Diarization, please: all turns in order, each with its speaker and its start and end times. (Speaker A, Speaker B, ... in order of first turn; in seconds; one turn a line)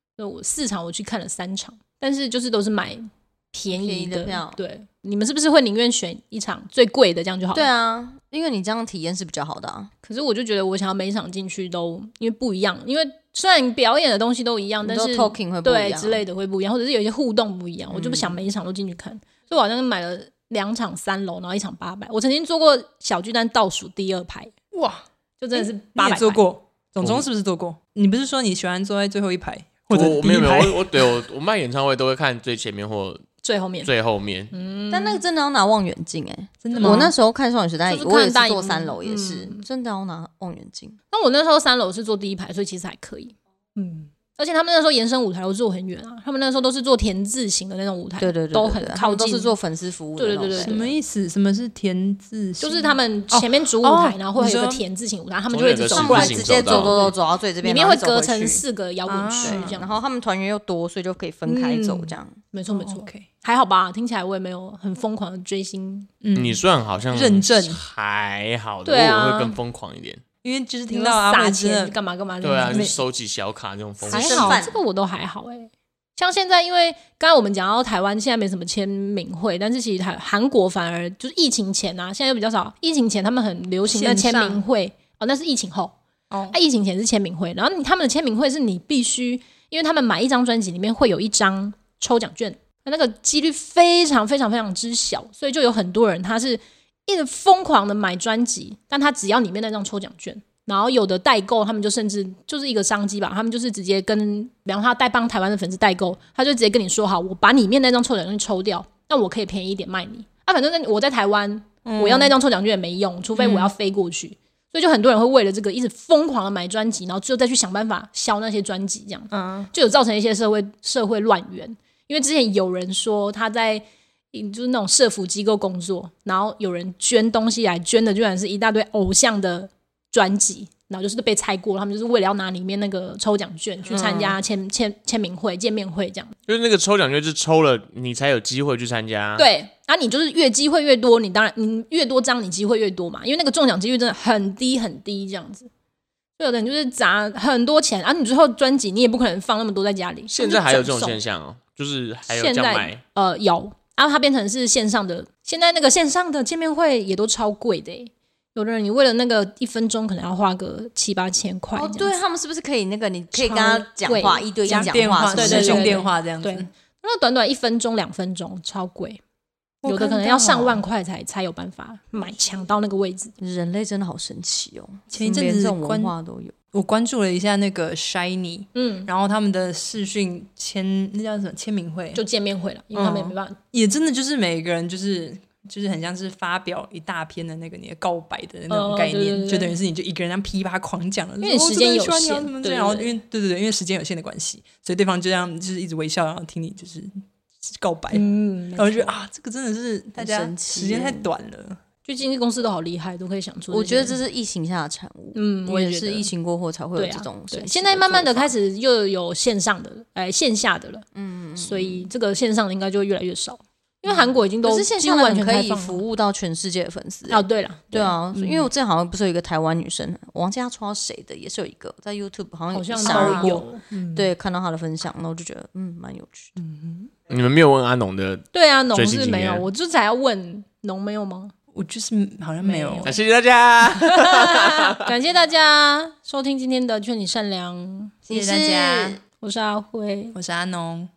Speaker A: 0.2-7.7
Speaker B: 3.7-4.6
Speaker B: 7.5-9.9
Speaker A: 10.0-24.5
Speaker B: 14.8-16.2
Speaker B: 17.9-18.4
Speaker C: 24.7-31.2
Speaker A: 25.4-26.4
Speaker D: 27.0-27.2
Speaker D: 29.9-33.2
Speaker A: 33.4-33.9
Speaker D: 33.8-34.5
Speaker A: 34.5-35.2
Speaker B: 34.9-41.0
Speaker C: 36.6-37.1
Speaker A: 36.7-37.1
Speaker A: 37.9-39.6
Speaker A: 41.1-49.5
Speaker B: 48.2-50.9
Speaker A: 50.1-50.9
Speaker C: 50.6-54.8
Speaker A: 52.6-60.0
Speaker D: 55.5-57.1
Speaker B: 55.9-58.6
Speaker C: 59.0-59.9
Speaker B: 59.4-62.4
Speaker A: 61.5-66.1
Speaker C: 62.7-63.3
Speaker C: 66.2-67.8
Speaker D: 66.3-70.2
Speaker A: 68.8-69.6
Speaker C: 70.4-72.0
Speaker A: 70.9-73.0
Speaker D: 72.4-74.6
Speaker C: 72.5-73.0
Speaker B: 74.0-74.8
Speaker A: 74.1-85.9
Speaker C: 83.8-84.6
Speaker C: 86.3-86.6
Speaker A: 86.5-136.3
Speaker C: 111.8-112.3
Speaker C: 113.4-113.7
Speaker C: 119.3-119.7
Speaker C: 134.0-134.3
Speaker D: 136.5-139.4
Speaker A: 139.4-145.7
Speaker A: 146.4-151.2
Speaker D: 150.3-153.0
Speaker A: 152.3-162.2
Speaker B: 161.7-166.0
Speaker C: 163.4-163.9
Speaker A: 163.4-169.2
Speaker C: 164.7-166.7
Speaker C: 169.8-170.8
Speaker A: 169.8-173.3
Speaker B: 173.4-176.5
Speaker C: 175.1-176.1
Speaker C: 176.7-182.2
Speaker A: 178.7-179.1
Speaker A: 182.1-183.6
Speaker C: 182.9-201.8
Speaker A: 188.7-189.7
Speaker A: 191.4-193.1
Speaker A: 198.1-199.2
Speaker B: 200.2-201.3
Speaker A: 202.0-204.2
Speaker B: 203.7-208.5
Speaker A: 205.3-206.3
Speaker A: 206.9-211.1
Speaker B: 211.1-212.1
Speaker A: 211.6-216.0
Speaker B: 214.0-226.5
Speaker A: 217.3-218.6
Speaker A: 222.7-224.3
Speaker C: 223.0-224.1
Speaker A: 226.6-227.1
Speaker D: 227.3-229.7
Speaker A: 228.5-231.5
Speaker C: 231.7-233.1
Speaker A: 232.6-233.2
Speaker D: 233.0-235.1
Speaker A: 233.9-238.1
Speaker B: 238.3-239.2
Speaker C: 238.3-239.2
Speaker A: 239.4-240.3
Speaker C: 240.3-241.1